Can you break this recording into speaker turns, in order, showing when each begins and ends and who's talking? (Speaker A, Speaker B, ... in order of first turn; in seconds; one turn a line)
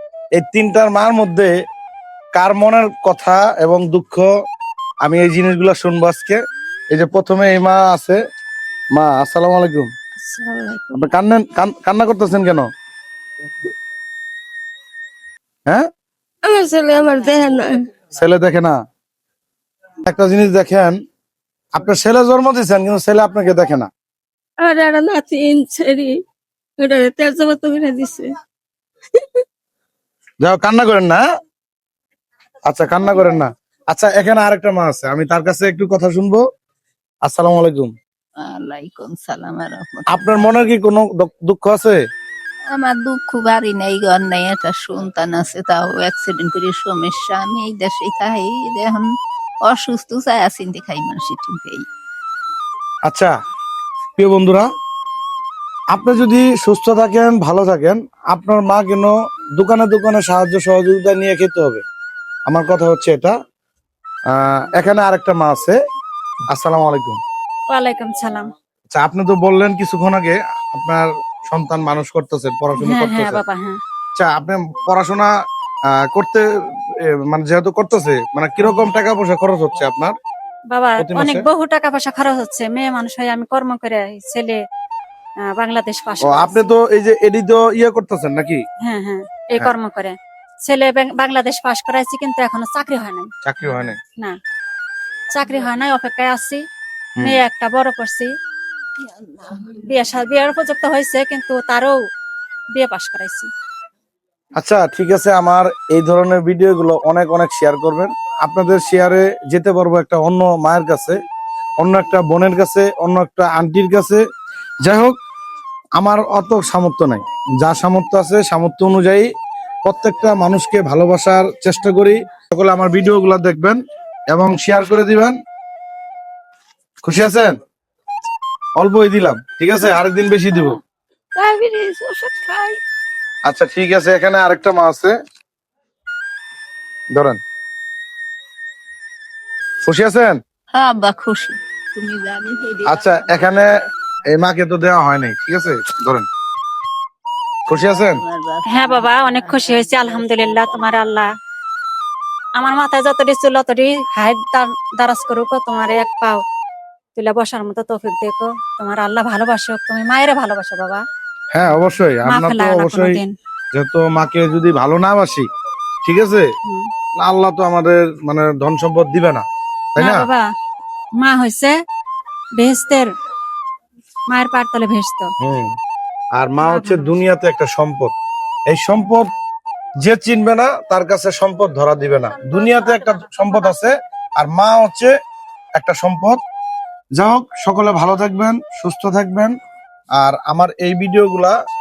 Speaker A: 0.4-1.5
Speaker A: 2.3-4.3
Speaker A: 5.0-6.4
Speaker A: 6.9-8.2
Speaker A: 8.9-9.9
Speaker B: 10.2-10.9
Speaker A: 10.9-12.7
Speaker B: 16.4-17.9
Speaker A: 18.1-18.8
Speaker A: 20.0-21.0
Speaker A: 21.8-23.9
Speaker B: 24.6-26.2
Speaker B: 26.8-28.3
Speaker B: 29.1-29.4
Speaker A: 30.4-31.2
Speaker A: 32.7-36.4
Speaker A: 37.2-37.9
Speaker C: 38.4-40.5
Speaker A: 40.1-42.0
Speaker C: 42.7-49.1
Speaker C: 49.6-51.8
Speaker A: 54.2-54.7
Speaker A: 55.9-61.8
Speaker A: 62.5-63.4
Speaker A: 64.3-65.8
Speaker A: 66.5-67.2
Speaker D: 67.7-68.5
Speaker A: 68.9-73.4
Speaker D: 72.8-73.8
Speaker A: 74.1-75.3
Speaker A: 76.1-76.5
Speaker A: 77.0-80.1
Speaker D: 80.7-84.6
Speaker A: 81.0-81.4
Speaker D: 85.5-86.7
Speaker A: 86.2-88.6
Speaker D: 88.8-93.3
Speaker A: 93.4-94.0
Speaker D: 95.3-96.6
Speaker D: 97.2-98.3
Speaker D: 99.7-102.0
Speaker D: 102.7-103.5
Speaker A: 104.6-111.2
Speaker A: 111.8-114.2
Speaker A: 114.8-115.2
Speaker A: 116.0-119.3
Speaker A: 119.8-123.8
Speaker A: 124.3-125.3
Speaker A: 127.0-127.5
Speaker A: 128.8-130.8
Speaker B: 131.3-132.8
Speaker A: 133.5-135.1
Speaker A: 137.1-137.4
Speaker A: 139.8-140.4
Speaker C: 140.7-143.8
Speaker A: 142.8-143.7
Speaker A: 144.3-146.2
Speaker A: 147.7-148.2
Speaker C: 147.7-150.9
Speaker D: 148.7-151.3
Speaker D: 152.6-156.4
Speaker D: 157.2-161.0
Speaker A: 161.5-163.2
Speaker D: 162.2-163.3
Speaker A: 163.7-165.4
Speaker A: 166.0-166.5
Speaker A: 167.2-170.2
Speaker D: 170.0-170.4
Speaker D: 171.2-171.7
Speaker D: 172.6-173.1
Speaker D: 174.3-175.3
Speaker A: 175.4-175.7
Speaker A: 176.4-178.1
Speaker D: 176.6-177.1
Speaker A: 178.7-179.3
Speaker A: 180.0-185.1
Speaker D: 182.8-183.5
Speaker A: 185.8-186.4
Speaker A: 187.2-189.5
Speaker A: 190.2-191.5